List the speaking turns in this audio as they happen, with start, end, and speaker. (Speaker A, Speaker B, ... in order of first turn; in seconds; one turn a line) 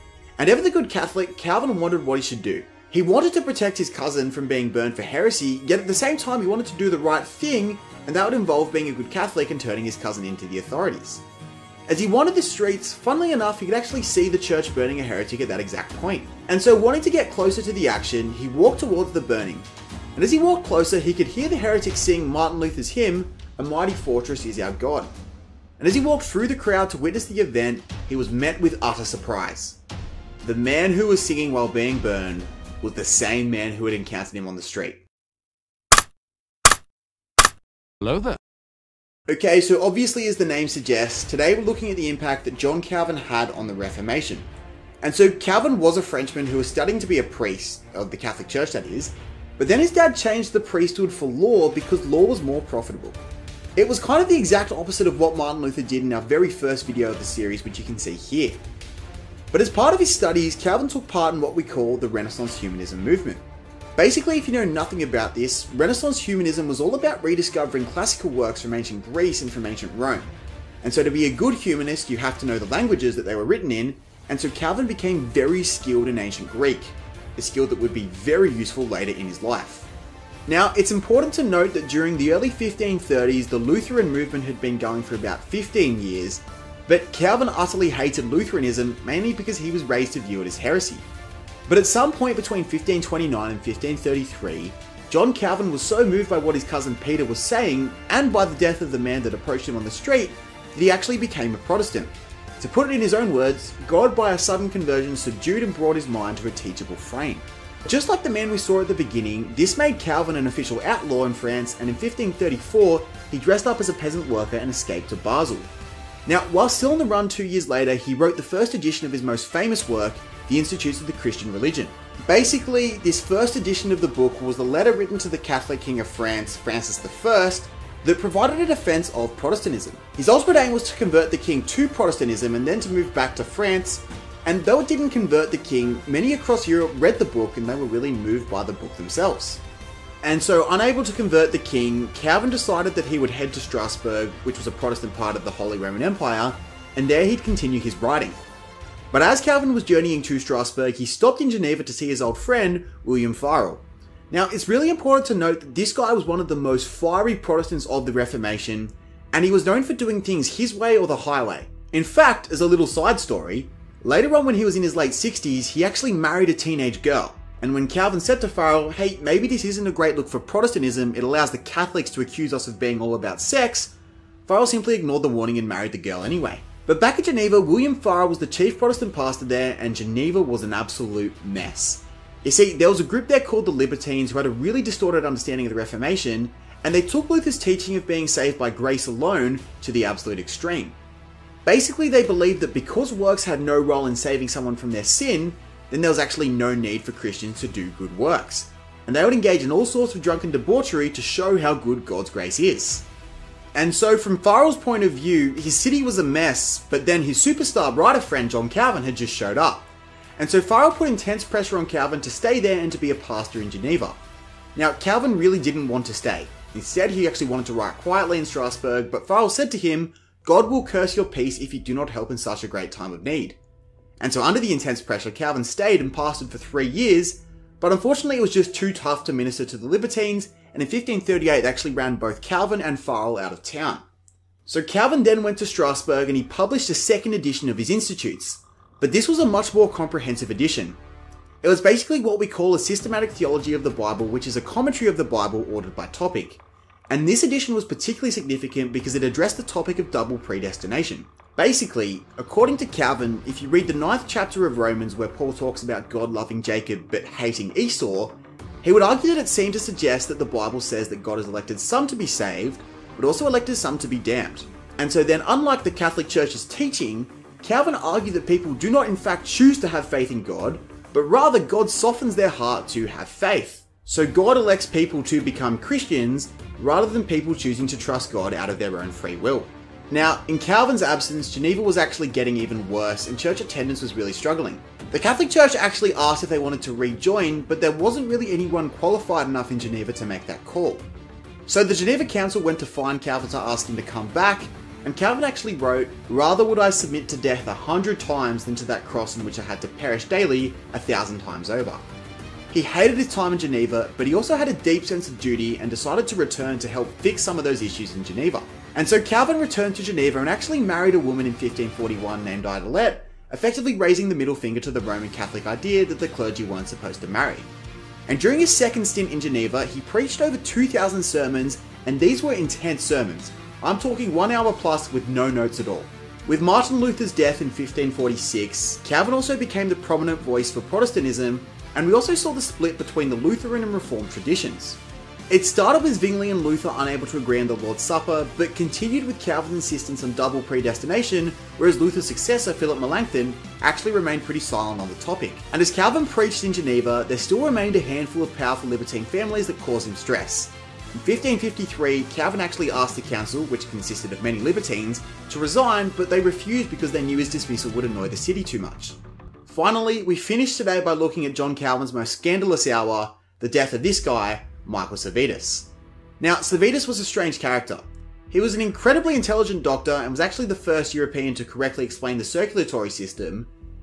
Speaker A: 0.4-11.2
Speaker A: 11.9-25.1
Speaker A: 25.8-29.8
Speaker A: 30.4-35.0
Speaker A: 39.3-44.5
Speaker A: 45.0-53.2
Speaker A: 53.8-58.6
Speaker A: 59.5-63.4
Speaker A: 64.0-79.9
Speaker A: 80.5-91.0
Speaker A: 91.7-115.7
Speaker A: 116.3-139.6
Speaker A: 140.2-148.4
Speaker A: 149.1-173.9
Speaker A: 174.5-191.0
Speaker A: 191.7-203.1
Speaker A: 203.7-214.2
Speaker A: 214.8-223.6
Speaker A: 224.2-234.1
Speaker A: 234.7-241.0
Speaker A: 241.6-291.1
Speaker A: 291.7-302.1
Speaker A: 302.7-317.7
Speaker A: 318.3-373.7